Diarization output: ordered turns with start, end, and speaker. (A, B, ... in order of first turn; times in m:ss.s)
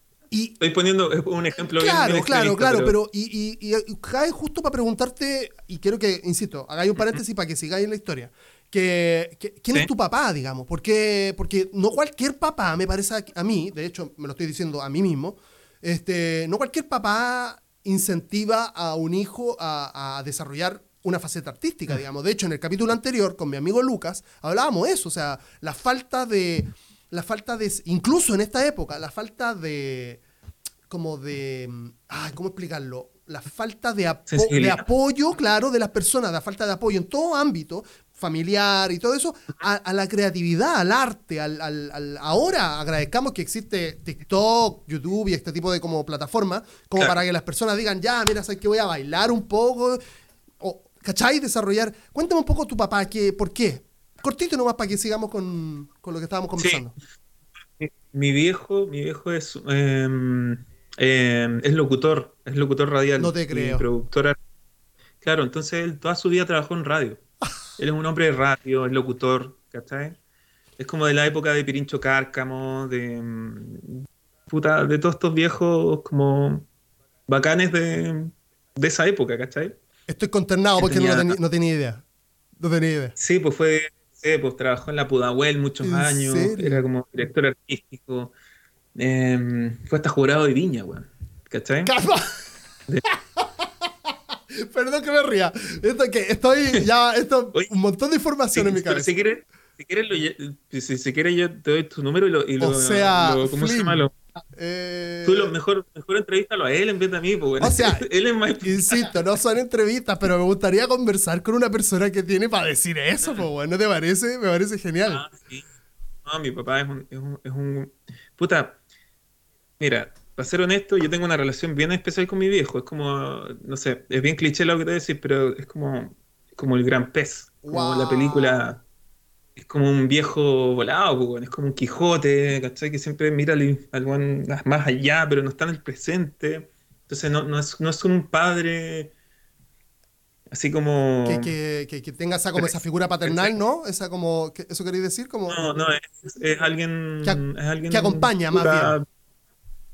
0:00.3-0:00.6 A
0:00.6-0:02.9 B
0:01.7-0:30.2 A
0:30.9-0:50.0 A
0:34.3-0:34.8 B
0:50.6-0:56.9 A
0:56.6-0:56.8 B
0:57.8-1:04.4 B
1:03.2-1:03.8 A
1:05.2-1:07.2 B
1:07.8-1:10.2 B
1:10.8-1:16.7 B
1:17.3-1:19.8 B
1:20.1-1:22.0 A
1:20.8-1:21.4 B
1:22.6-1:23.2 A
1:23.2-1:28.3 B
1:25.8-1:26.8 A
1:29.0-1:31.9 B
1:31.8-1:32.3 A
1:33.4-1:39.1 A
1:38.5-1:44.1 B
1:42.6-1:44.0 A
1:44.5-1:45.5 A
1:45.2-1:49.1 B
1:47.6-1:48.1 A
1:48.6-1:55.2 A
1:55.1-1:55.7 B
1:56.2-1:58.8 B
1:59.8-2:08.8 B
2:07.6-2:08.8 A
2:09.6-2:19.1 B
2:20.5-2:21.5 B
2:21.2-2:25.6 A
2:22.6-2:23.5 B
2:25.5-2:29.0 B
2:27.2-2:29.0 A